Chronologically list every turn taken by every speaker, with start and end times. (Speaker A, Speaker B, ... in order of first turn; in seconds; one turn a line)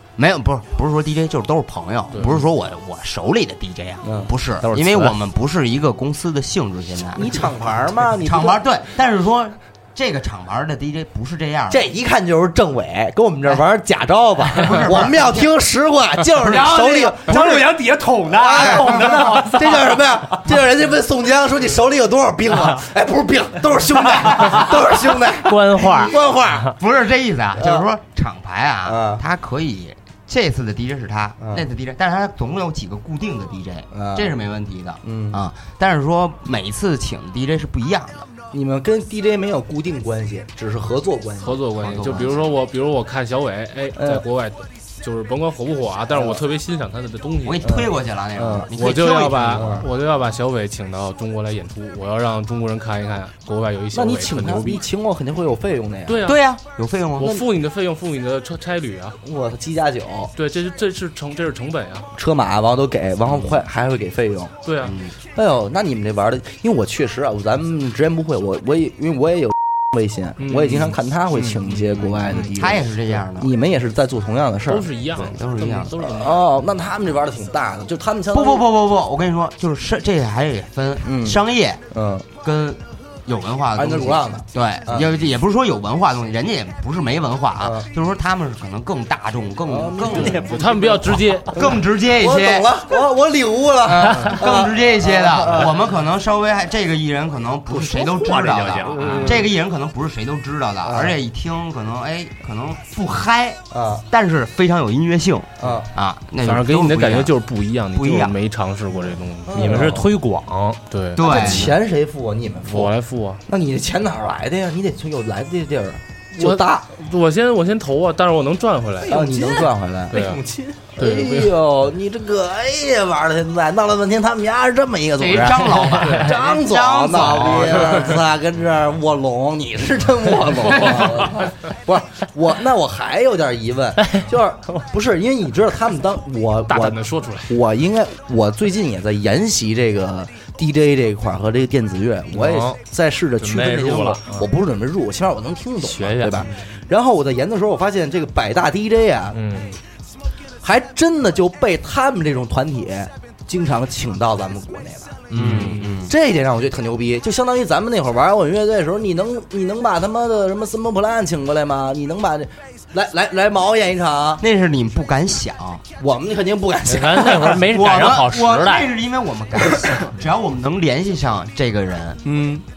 Speaker A: 0.2-7.5
Speaker B: 4.0-4.3
Speaker C: 4.6-5.1
Speaker B: 7.1-8.6
Speaker A: 8.1-11.8
Speaker B: 11.7-17.7
Speaker A: 14.5-15.5
Speaker D: 16.4-19.8
Speaker B: 18.3-26.7
Speaker A: 18.6-19.4
Speaker C: 24.5-26.7
Speaker A: 26.6-38.3
Speaker B: 27.6-27.9
Speaker B: 28.9-29.2
Speaker B: 31.4-31.6
Speaker B: 33.9-34.3
Speaker B: 35.0-35.4
Speaker B: 38.5-42.2
Speaker E: 41.4-47.6
Speaker A: 41.8-42.5
Speaker B: 44.0-44.2
Speaker B: 46.1-46.4
Speaker A: 47.4-49.8
Speaker B: 47.6-48.7
Speaker E: 48.7-54.8
Speaker B: 49.5-49.9
Speaker B: 53.9-56.2
Speaker E: 56.1-56.4
Speaker A: 56.2-57.4
Speaker E: 57.2-59.1
Speaker B: 59.2-60.3
Speaker E: 60.4-62.1
Speaker B: 62.1-64.5
Speaker E: 64.6-65.0
Speaker A: 64.8-65.1
Speaker B: 65.3-74.9
Speaker E: 70.4-72.3
Speaker A: 72.0-73.5
Speaker E: 74.7-76.5
Speaker A: 75.1-76.0
Speaker B: 76.0-78.7
Speaker A: 78.3-81.8
Speaker B: 81.0-82.3
Speaker A: 82.4-90.5
Speaker B: 83.7-85.1
Speaker B: 87.6-87.9
Speaker B: 89.7-95.8
Speaker C: 90.3-91.2
Speaker E: 90.4-91.6
Speaker A: 91.5-92.9
Speaker A: 93.8-107.3
Speaker C: 97.9-99.4
Speaker B: 98.9-99.5
Speaker B: 100.8-101.2
Speaker B: 103.7-104.0
Speaker B: 105.6-105.9
Speaker E: 106.4-110.0
Speaker A: 107.9-108.4
Speaker B: 109.5-110.1
Speaker C: 109.5-110.8
Speaker E: 110.9-111.7
Speaker A: 111.2-111.8
Speaker B: 111.2-112.9
Speaker E: 112.7-113.4
Speaker B: 113.5-116.8
Speaker E: 116.4-119.4
Speaker B: 119.1-149.4
Speaker E: 120.1-120.4
Speaker E: 121.0-121.6
Speaker A: 125.2-128.1
Speaker E: 130.8-131.5
Speaker E: 136.7-137.6
Speaker C: 142.3-142.8
Speaker C: 143.4-144.5
Speaker C: 145.8-146.5
Speaker C: 149.3-149.7
Speaker B: 150.6-164.4
Speaker A: 155.3-156.1
Speaker E: 155.5-155.9
Speaker A: 164.4-165.8
Speaker B: 166.0-167.6
Speaker C: 166.8-168.9
Speaker A: 167.6-172.2
Speaker B: 172.2-172.6